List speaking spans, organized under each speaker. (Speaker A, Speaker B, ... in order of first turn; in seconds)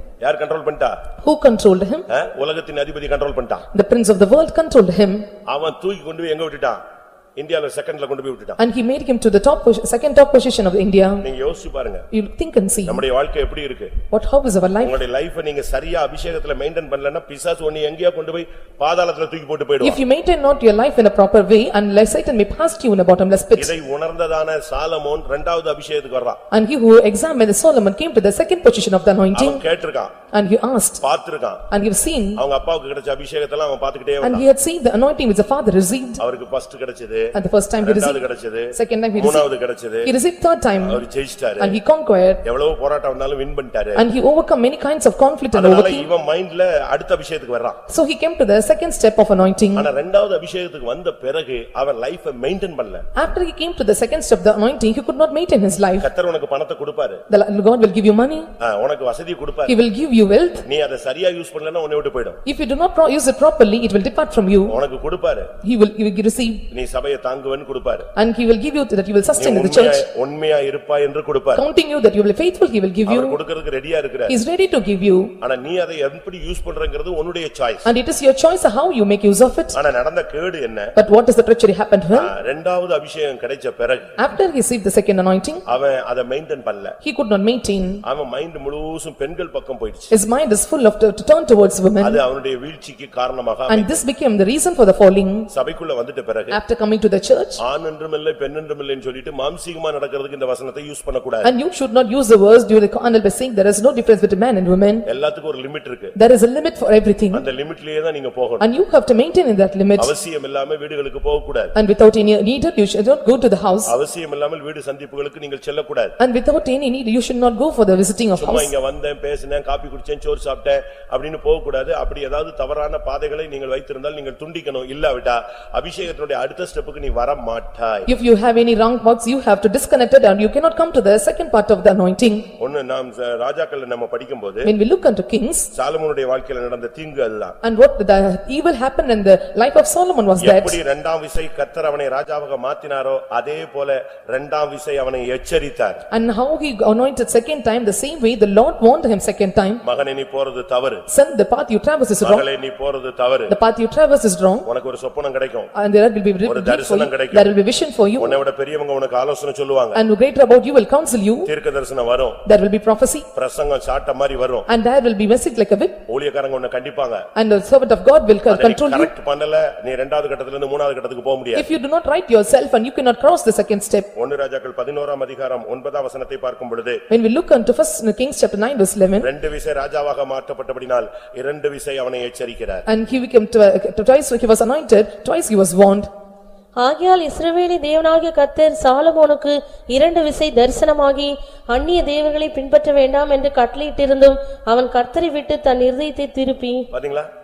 Speaker A: 0.2-1.0, 2.1-3.7, 5.5-6.8, 7.4-8.6, 11.2-12.1, 12.9-14.0, 14.8-20.0, 23.6-26.4, 29.4-30.1, 31.0-31.6, 32.4-34.5, 36.2-40.1, 40.8-41.8, 42.4-44.0, 45.5-47.8, 49.8-53.0, 56.0-57.2, 58.6-59.8, 60.7-62.4, 64.7-65.5, 66.7-68.1, 69.4-71.6, 73.1-74.3, 75.4-77.9, 79.8-80.9, 82.1-84.2, 85.7-87.0, 88.0-90.1, 92.0-94.0, 95.5-96.6, 97.6-101.5, 105.1-106.2, 107.3-108.6, 110.0-111.7, 113.9-116.2, 118.4-128.1, 132.6-134.7, 135.7-137.6, 140.4-146.0, 149.8-151.1, 152.2-153.5, 154.7-155.7, 156.4-157.5, 158.2-160.0, 161.5-162.4, 163.3-164.7, 166.1-167.3, 168.5-171.7, 174.2-177.0, 179.2-182.8, 196.9-197.3
Speaker B: 1.2-2.1, 3.7-5.3, 8.6-11.2, 12.1-13.0, 14.1-15.0, 19.8-23.7, 26.5-29.6, 30.3-31.0, 31.7-32.4, 34.2-36.2, 37.3-39.5, 40.0-41.0, 41.6-42.4, 44.0-46.1, 47.9-49.9, 53.1-56.1, 57.3-58.5, 59.7-60.6, 62.5-64.8, 65.6-66.6, 68.2-70.0, 71.6-73.4, 74.3-75.3, 77.8-79.8, 81.0-82.3, 84.2-85.6, 87.0-88.0, 90.1-92.2, 93.7-95.5, 96.5-97.6, 101.4-105.1, 106.2-107.4, 108.6-110.1, 111.8-113.9, 116.2-118.7, 128.1-132.5, 134.7-135.7, 137.6-140.8, 146.1-149.8, 151.1-152.4, 153.5-154.7, 155.7-158.4, 159.9-161.5, 162.5-163.3, 164.7-166.0, 167.3-169.1, 171.6-174.1, 177.1-179.3, 182.9-186.1
Speaker C: 186.8-196.9